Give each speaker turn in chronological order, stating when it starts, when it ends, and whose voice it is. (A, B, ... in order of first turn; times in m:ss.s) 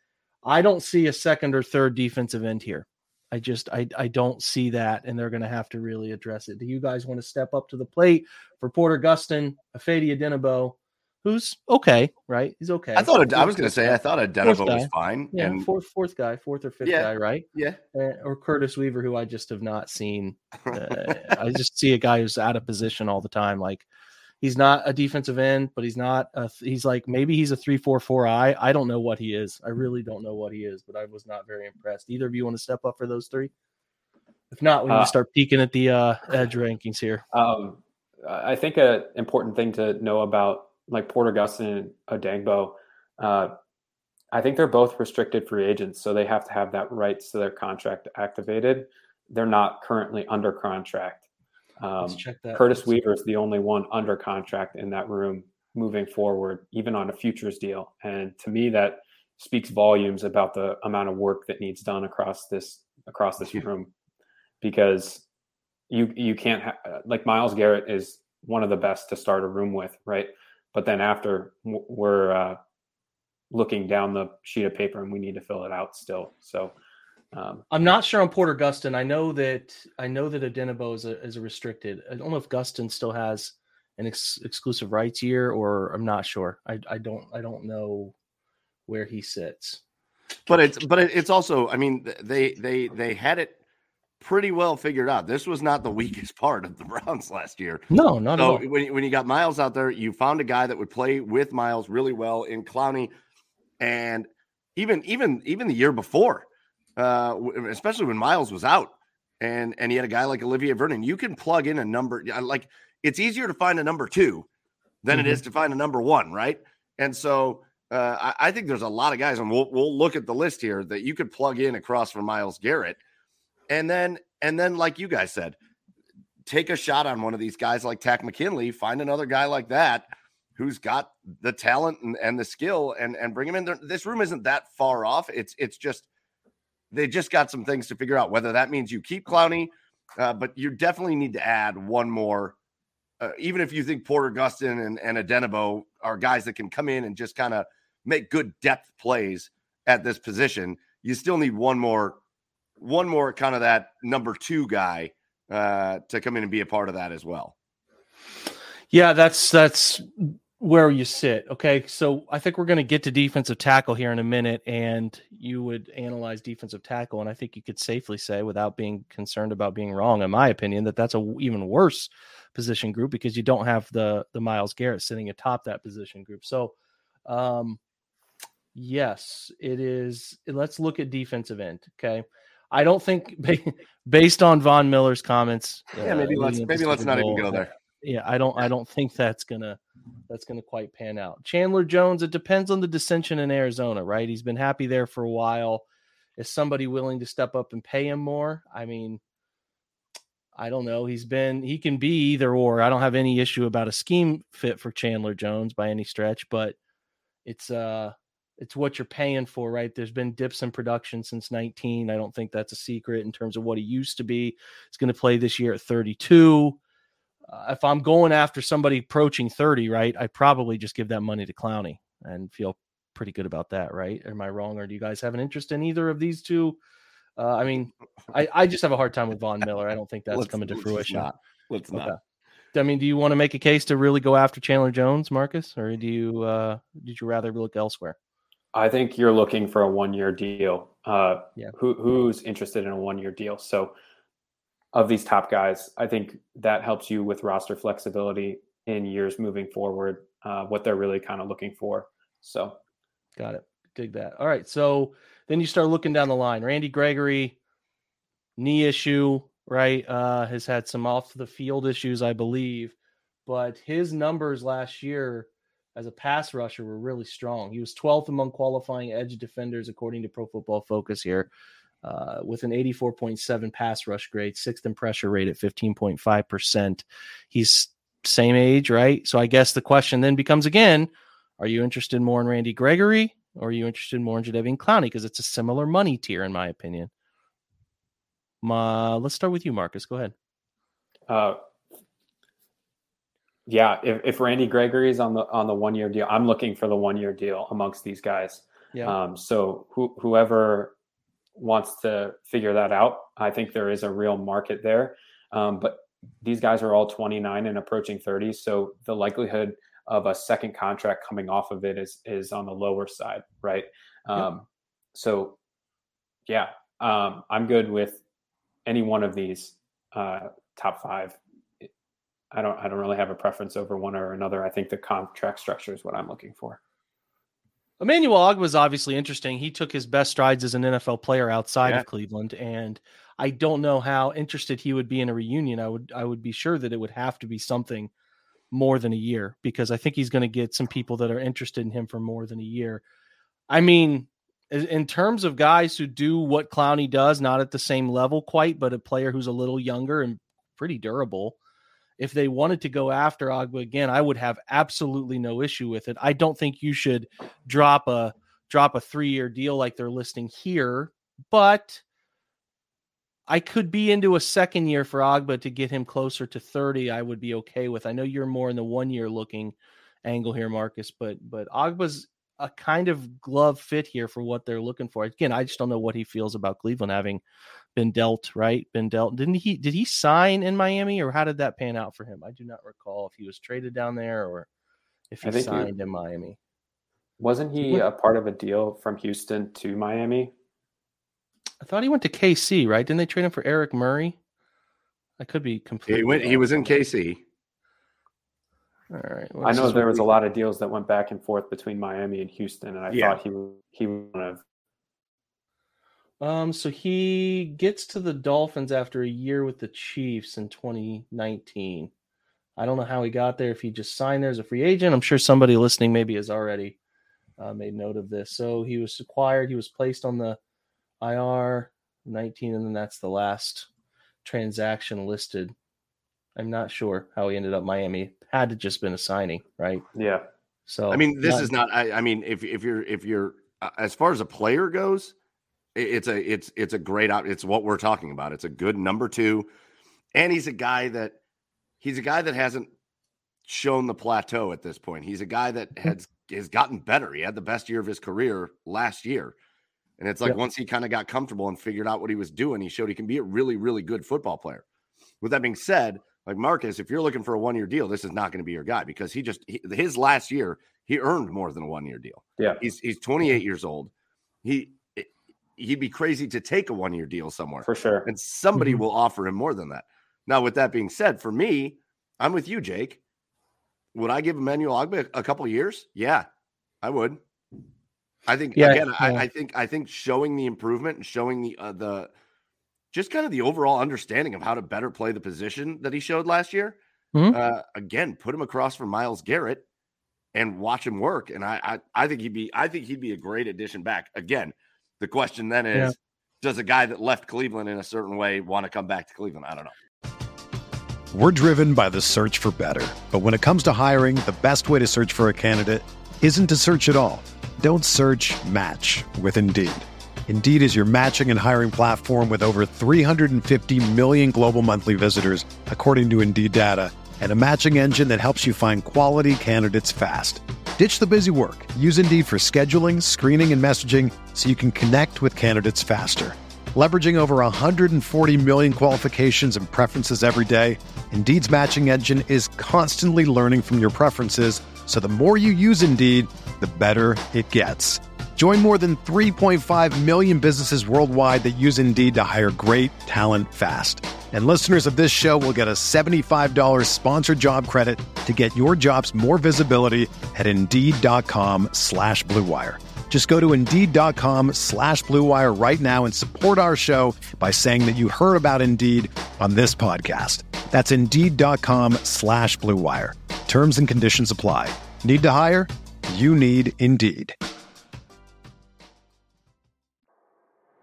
0:00.4-0:23.8 A
0:13.0-0:15.6 B
0:16.8-0:17.8 B
0:20.7-0:21.2 B
0:24.4-0:33.5 A
0:34.5-0:37.2 A
0:37.3-0:43.5 C
0:44.3-0:51.2 C
0:51.8-1:03.9 C
0:52.0-0:52.9 A
1:04.6-1:05.2 C
1:05.9-1:12.6 C
1:13.5-1:16.7 C
1:17.3-1:17.6 C
1:17.7-1:28.1 A
1:28.9-1:29.8 A
1:30.5-1:30.8 A
1:30.5-1:33.6 B
1:34.2-1:43.1 B
1:37.9-1:38.6 A
1:43.8-1:54.5 B
1:55.0-2:03.0 B
1:55.1-1:55.4 A
2:03.7-2:05.6 B
2:06.4-2:16.1 B
2:16.9-2:22.6 B
2:23.2-2:32.2 B
2:32.8-2:37.5 B
2:38.9-2:56.7 A
2:57.2-2:57.8 A
2:58.7-3:15.8 A
3:06.0-3:07.7 B
3:16.4-3:19.2 A
3:20.6-3:26.8 A
3:27.4-3:36.8 A
3:37.5-3:46.8 A
3:47.4-3:51.3 A
3:50.3-3:52.1 B
3:51.9-3:52.2 A
3:52.7-3:58.2 A
3:58.7-4:03.9 C
4:04.9-4:12.8 C
4:13.4-4:17.6 A
4:18.6-4:31.5 A
4:32.0-4:47.1 A
4:48.6-4:50.3 A
4:51.3-4:51.6 C
4:53.7-5:00.9 C
5:01.5-5:15.6 C
5:16.5-5:18.2 C
5:18.8-5:21.8 C
5:22.5-5:26.8 C
5:28.0-5:38.1 A
5:38.7-5:43.0 A
5:43.7-5:51.6 A
5:52.2-6:02.0 A
6:03.5-6:17.4 A
6:17.9-6:24.7 A
6:25.3-6:26.6 A
6:25.4-6:25.9 C
6:27.4-6:30.5 C
6:31.8-6:34.4 A
6:35.4-6:37.0 A
6:36.1-6:37.4 B
6:39.1-6:40.3 A
6:39.6-6:44.6 C
6:43.1-6:43.4 B
6:46.4-6:52.1 A
6:52.8-6:57.0 A
6:57.6-7:00.6 A
7:01.2-7:03.9 A
7:04.4-7:05.7 A
7:06.6-7:10.0 A
7:10.1-7:10.4 C
7:10.9-7:11.7 A
7:11.1-7:15.3 B
7:15.9-7:19.7 B
7:20.3-7:21.4 B
7:22.0-7:22.9 B
7:23.6-7:29.5 B
7:30.2-7:34.8 B
7:35.4-7:44.1 B
7:44.6-7:53.2 B
7:47.8-7:48.3 C
7:54.1-7:56.5 B
7:57.0-7:57.4 B
7:58.4-8:02.3 B
7:58.7-7:59.4 A
8:03.1-8:07.0 B
8:07.5-8:09.8 B
8:10.5-8:19.9 B
8:21.3-9:27.6 D